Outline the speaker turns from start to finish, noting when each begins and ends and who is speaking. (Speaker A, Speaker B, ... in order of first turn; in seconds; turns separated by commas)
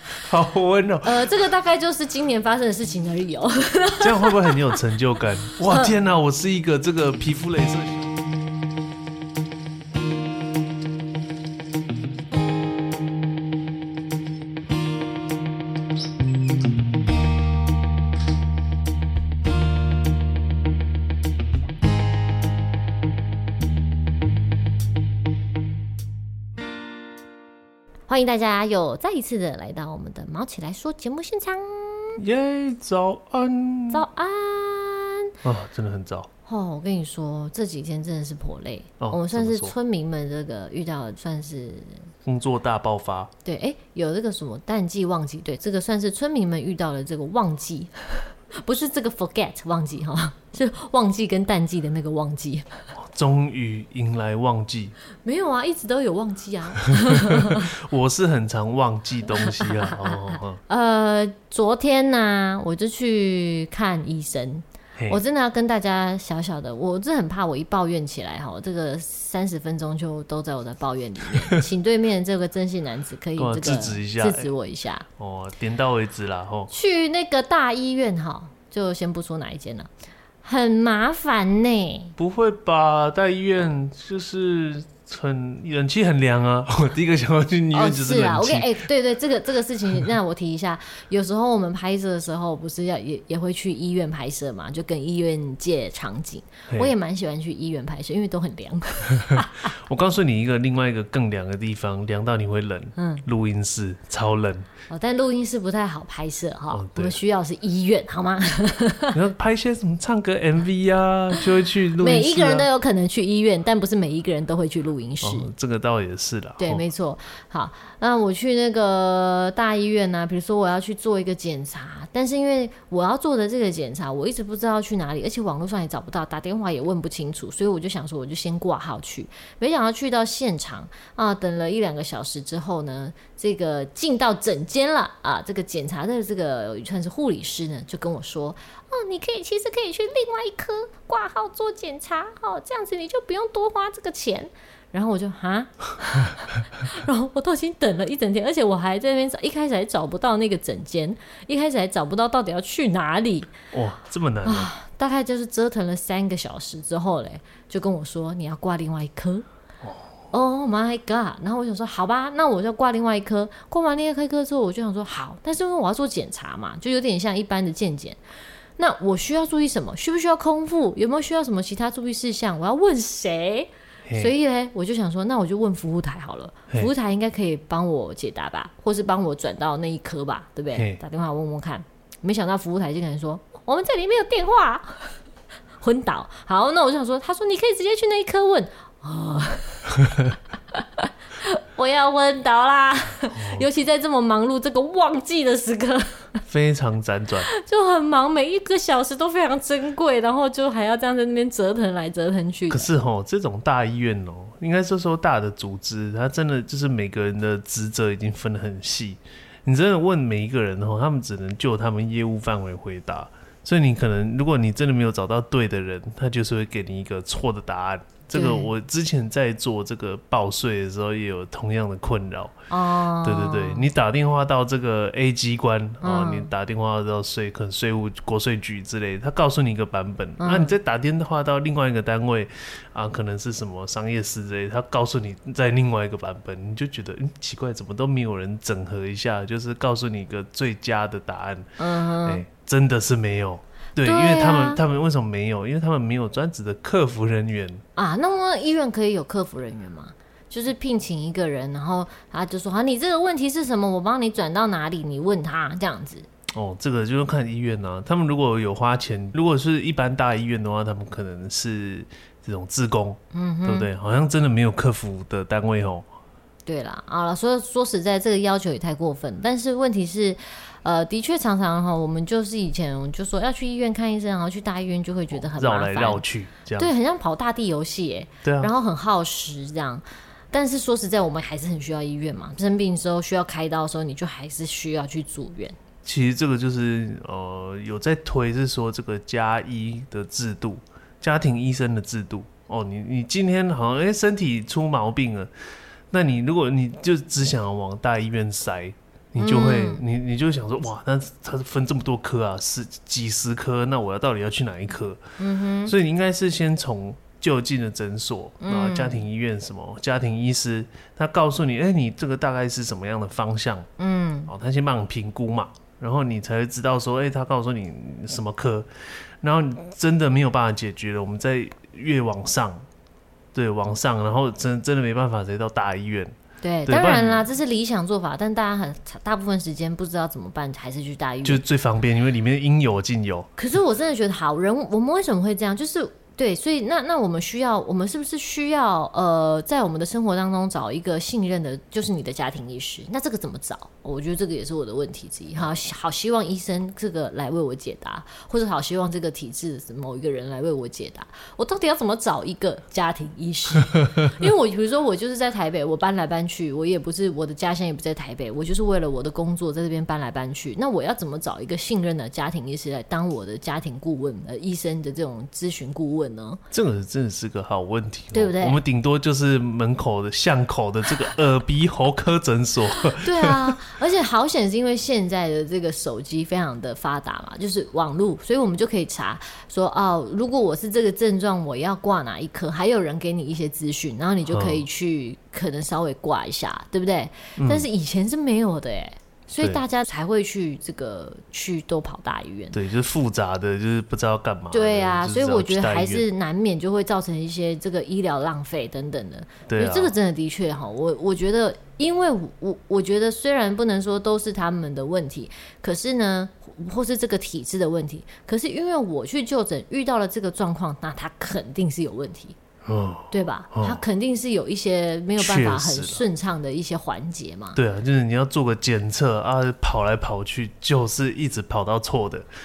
Speaker A: 0.2-1.2, Speaker B: 1.0-4.6, Speaker A: 4.0-8.1, Speaker B: 28.1-32.2, Speaker A: 32.2-34.0, Speaker B: 33.9-35.3, Speaker A: 35.4-36.3, Speaker B: 36.5-42.1, Speaker A: 39.0-39.7, Speaker A: 42.2-43.3, Speaker B: 43.5-52.8, Speaker A: 53.0-55.0, Speaker B: 55.2-57.7, Speaker A: 57.0-60.6, Speaker B: 59.4-75.1, Speaker A: 73.4-74.5, Speaker A: 75.2-76.7, Speaker B: 76.7-79.9, Speaker B: 80.4-82.1, Speaker A: 82.2-88.7, Speaker B: 87.7-99.7, Speaker A: 99.3-104.7, Speaker B: 103.0-103.2, Speaker B: 104.9-109.2, Speaker A: 106.7-107.2, Speaker A: 109.1-112.7, Speaker B: 112.0-115.5, Speaker A: 115.2-116.8, Speaker B: 116.6-153.5, Speaker A: 153.7-154.7, Speaker B: 154.4-159.4, Speaker B: 160.3-168.2, Speaker B: 168.8-185.2, Speaker A: 180.7-181.0, Speaker B: 185.8-196.3, Speaker A: 193.3-193.7, Speaker A: 196.5-197.5, Speaker B: 197.5-202.9, Speaker A: 202.7-222.6, Speaker B: 218.3-218.7, Speaker B: 222.7-223.9, Speaker A: 223.2-241.7, Speaker B: 226.0-226.5, Speaker B: 230.4-230.7, Speaker B: 241.8-242.4, Speaker A: 242.2-247.8, Speaker B: 244.0-244.8, Speaker B: 248.0-256.3, Speaker A: 256.6-266.1, Speaker B: 263.3-263.9, Speaker B: 266.7-276.2, Speaker A: 275.3-276.9, Speaker B: 276.8-285.8, Speaker A: 278.4-278.7, Speaker A: 286.1-295.5, Speaker A: 296.1-305.2, Speaker B: 299.4-300.0, Speaker B: 305.4-305.9, Speaker A: 305.9-313.9, Speaker B: 308.6-309.2, Speaker B: 314.0-314.5, Speaker A: 314.5-318.9, Speaker A: 319.4-322.9, Speaker A: 323.5-326.4, Speaker B: 326.6-331.6, Speaker A: 326.9-327.5, Speaker A: 331.4-333.5, Speaker B: 333.6-366.6, Speaker A: 366.7-373.8, Speaker B: 368.3-368.8, Speaker B: 373.2-392.8, Speaker A: 384.5-384.9, Speaker A: 387.6-387.9, Speaker A: 392.7-396.2, Speaker B: 394.7-412.6, Speaker A: 399.7-400.1, Speaker A: 412.9-414.0, Speaker B: 413.3-417.8, Speaker A: 415.4-416.2, Speaker A: 417.8-422.5